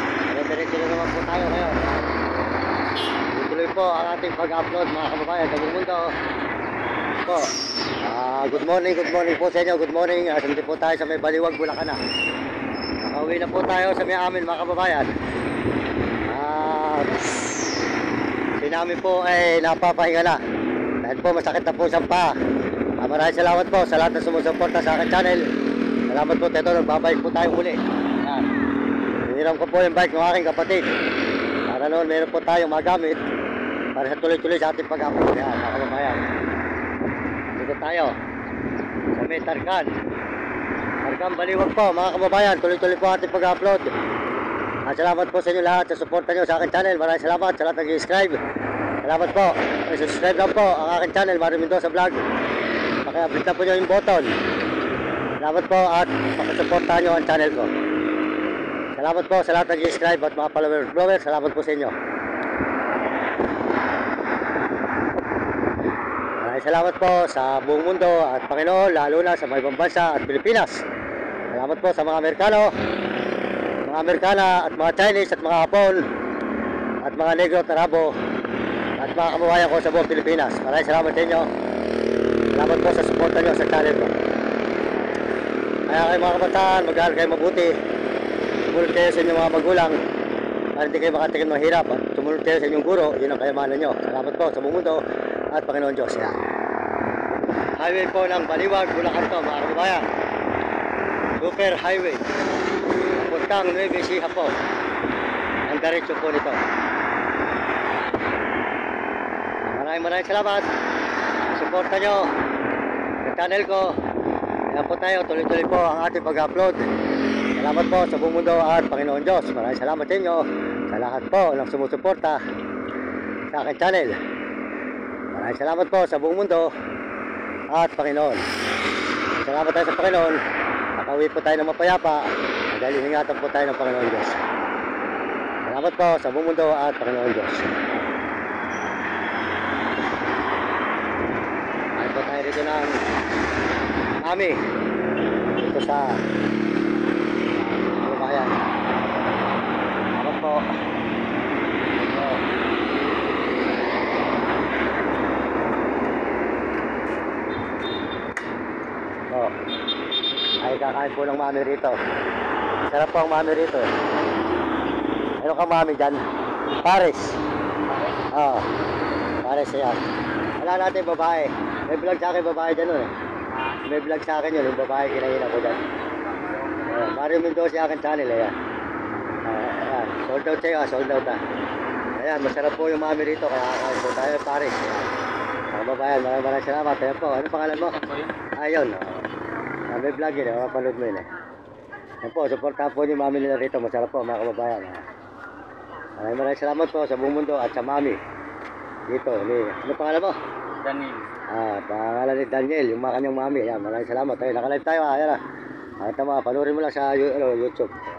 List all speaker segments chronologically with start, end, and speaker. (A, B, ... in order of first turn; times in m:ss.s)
0:00.3-0:02.1 A
0:03.3-0:06.1 A
0:07.2-0:07.5 A
0:08.0-0:12.0 A
0:13.0-0:15.1 A
0:16.3-0:17.2 A
0:18.6-0:20.4 A
0:21.0-0:22.4 A
0:23.0-0:25.5 A
0:26.1-0:28.4 A
0:29.2-0:30.9 A
0:31.7-0:33.2 A
0:33.9-0:36.3 A
0:37.5-0:38.1 A
0:39.1-0:39.9 A
0:41.0-0:43.9 A
0:44.9-0:48.4 A
0:49.0-0:52.2 A
0:53.0-0:54.3 A
0:55.4-0:57.7 A
0:59.0-1:01.9 A
1:06.4-1:10.8 A
1:11.5-1:12.7 A
1:13.8-1:16.0 A
1:17.0-1:18.2 A
1:19.0-1:21.5 A
1:22.5-1:24.1 A
1:25.9-1:27.7 A
1:28.7-1:30.0 A
1:30.8-1:35.0 A
1:35.5-1:36.4 A
1:37.8-1:40.0 A
1:41.4-1:42.2 A
1:43.1-1:44.5 A
1:45.6-1:46.6 A
1:49.7-1:50.7 A
1:51.5-1:52.3 A
1:53.2-1:54.0 A
1:54.7-1:56.8 A
1:57.6-2:02.4 A
2:03.5-2:04.2 A
2:05.3-2:06.7 A
2:07.7-2:08.4 A
2:09.4-2:10.4 A
2:11.0-2:14.4 A
2:15.6-2:17.8 A
2:22.0-2:23.0 A
2:24.2-2:24.6 A
2:25.5-2:26.2 A
2:27.5-2:28.6 A
2:30.1-2:30.6 A
2:32.0-2:32.4 A
2:40.6-2:42.0 A
2:42.9-2:43.9 A
2:45.4-2:46.2 A
2:46.8-2:47.4 A
2:47.9-2:48.2 B
2:48.3-2:48.6 A
2:49.4-2:50.0 A
2:50.6-2:53.1 A
2:53.5-2:53.8 B
2:53.8-2:55.8 A
2:56.3-2:57.1 B
2:56.9-2:58.5 A
2:59.4-3:01.4 A
3:02.2-3:05.1 A
3:05.7-3:08.0 A
3:07.8-3:08.3 B
3:08.6-3:09.2 A
3:09.9-3:11.3 A
3:12.2-3:15.0 A
3:16.2-3:18.2 A
3:19.1-3:20.4 A
3:20.8-3:21.3 B
3:21.5-3:25.4 A
3:26.0-3:28.0 A